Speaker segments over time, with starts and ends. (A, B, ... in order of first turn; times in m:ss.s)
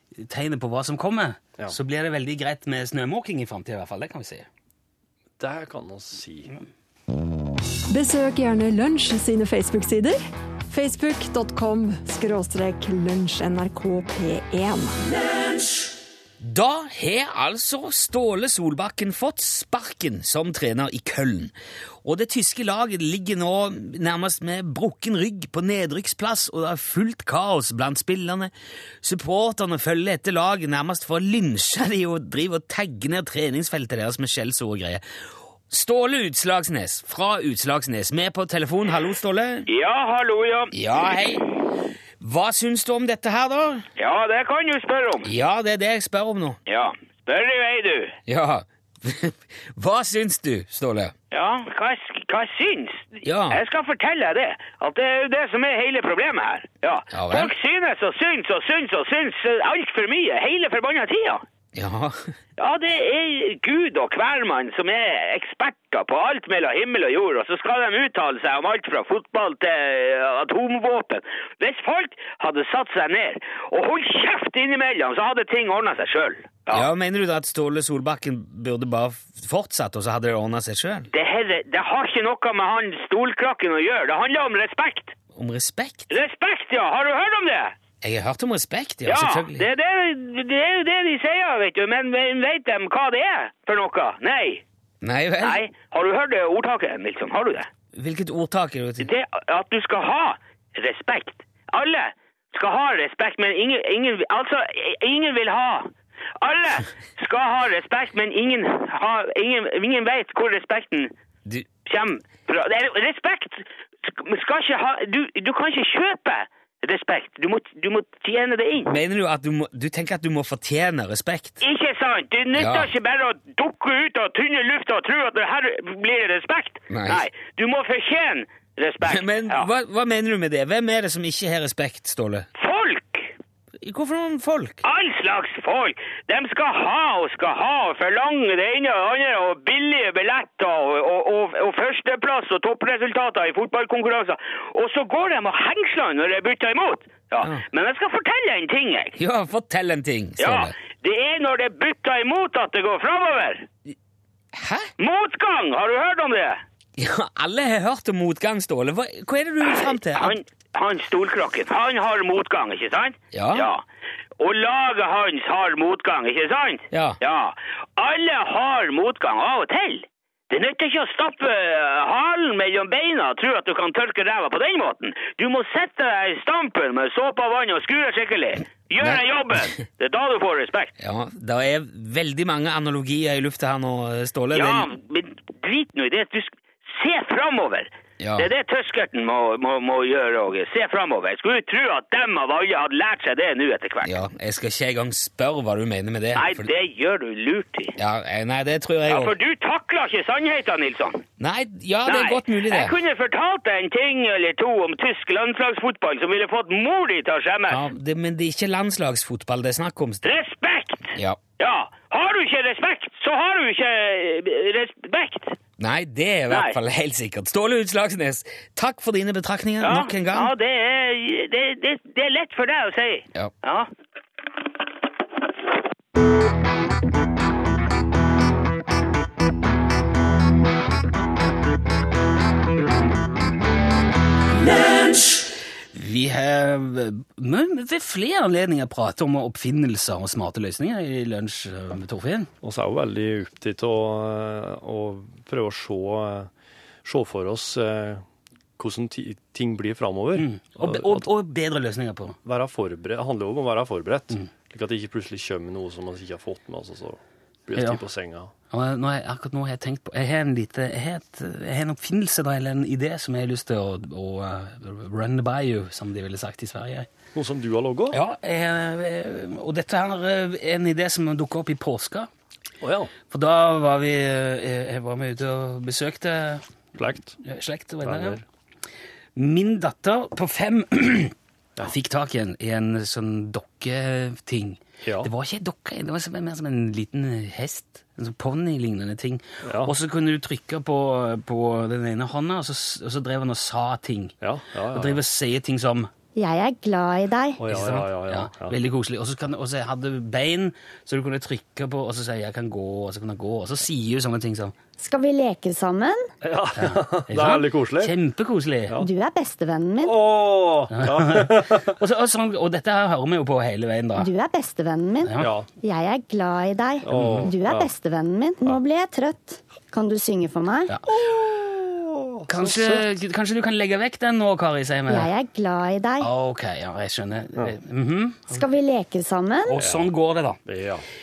0:00.2-0:04.5 A
0:05.4-0:06.5 B
0:07.9-0:10.2 C
0:10.7-0:15.0 C
0:16.4-0:21.5 A
0:22.0-0:28.5 A
0:29.0-0:35.0 A
0:35.7-0:39.7 A
0:39.7-0:41.2 D
0:40.7-0:41.4 A
0:42.2-0:43.8 A
0:44.0-0:45.3 D
0:45.2-0:46.6 A
0:46.7-0:48.2 D
0:48.3-0:51.1 A
0:51.3-1:01.4 D
0:53.2-0:53.6 A
0:57.1-0:57.5 A
1:01.7-1:02.3 A
1:02.6-1:16.8 D
1:16.7-1:21.1 A
1:21.1-1:25.1 D
1:25.3-1:26.1 A
1:26.1-1:27.7 D
1:28.0-1:29.7 A
1:29.0-1:34.6 D
1:35.0-1:35.6 A
1:35.4-1:37.7 D
1:37.9-1:39.1 A
1:39.0-1:51.1 D
1:51.8-1:58.9 D
1:58.9-2:01.6 A
2:01.6-2:09.7 D
2:02.6-2:02.9 A
2:06.9-2:07.3 A
2:09.0-2:12.5 A
2:12.6-2:13.3 D
2:13.8-2:14.8 A
2:14.8-2:29.1 D
2:29.2-2:30.7 A
2:30.4-2:33.7 D
2:34.5-2:34.9 A
2:35.0-2:36.6 D
2:37.0-2:40.3 A
2:39.6-2:43.8 D
2:43.3-2:43.7 A
2:44.4-3:00.9 D
2:46.9-2:47.2 A
2:59.0-2:59.8 A
3:01.0-3:04.9 A
3:04.5-3:14.1 D
3:08.2-3:08.5 A
3:14.0-3:16.7 A
3:16.3-3:17.9 D
3:18.0-3:19.3 A
3:19.1-3:21.2 D
3:21.4-3:23.0 A
3:22.0-3:27.8 D
3:27.7-3:30.3 A
3:30.2-3:35.6 D
3:31.1-3:31.4 A
3:35.8-3:40.5 A
3:36.5-3:36.7 D
3:39.8-3:43.9 D
3:55.9-4:02.5 A
4:02.6-4:06.5 B
4:07.0-4:08.2 B
4:08.8-4:11.3 B
4:10.3-4:12.4 A
4:12.4-4:18.5 B
4:18.7-4:27.1 A
4:27.3-4:28.2 B
4:28.1-4:32.3 A
4:32.8-4:33.1 B
4:33.3-4:36.6 A
4:37.0-4:37.4 B
4:37.4-4:38.4 A
4:38.0-4:38.4 B
4:39.4-4:54.3 A
4:45.0-4:45.3 B
4:49.6-4:49.9 B
4:54.4-4:55.2 B
4:54.9-4:56.1 A
4:56.4-4:57.6 E
4:57.6-4:58.8 B
4:57.7-5:04.7 A
5:05.0-5:06.3 E
5:06.4-5:08.1 B
5:06.8-5:08.9 A
5:09.0-5:10.2 E
5:10.0-5:11.9 B
5:10.9-5:14.3 A
5:14.2-5:20.9 E
5:15.2-5:15.5 A
5:15.4-5:15.7 B
5:17.0-5:17.9 B
5:17.1-5:17.5 A
5:20.9-5:21.1 A
5:21.1-5:23.1 B
5:22.5-5:25.3 A
5:25.1-5:26.3 E
5:26.2-5:28.5 A
5:28.5-5:29.7 E
5:29.7-5:30.6 A
5:29.7-5:30.1 B
5:30.6-5:31.0 B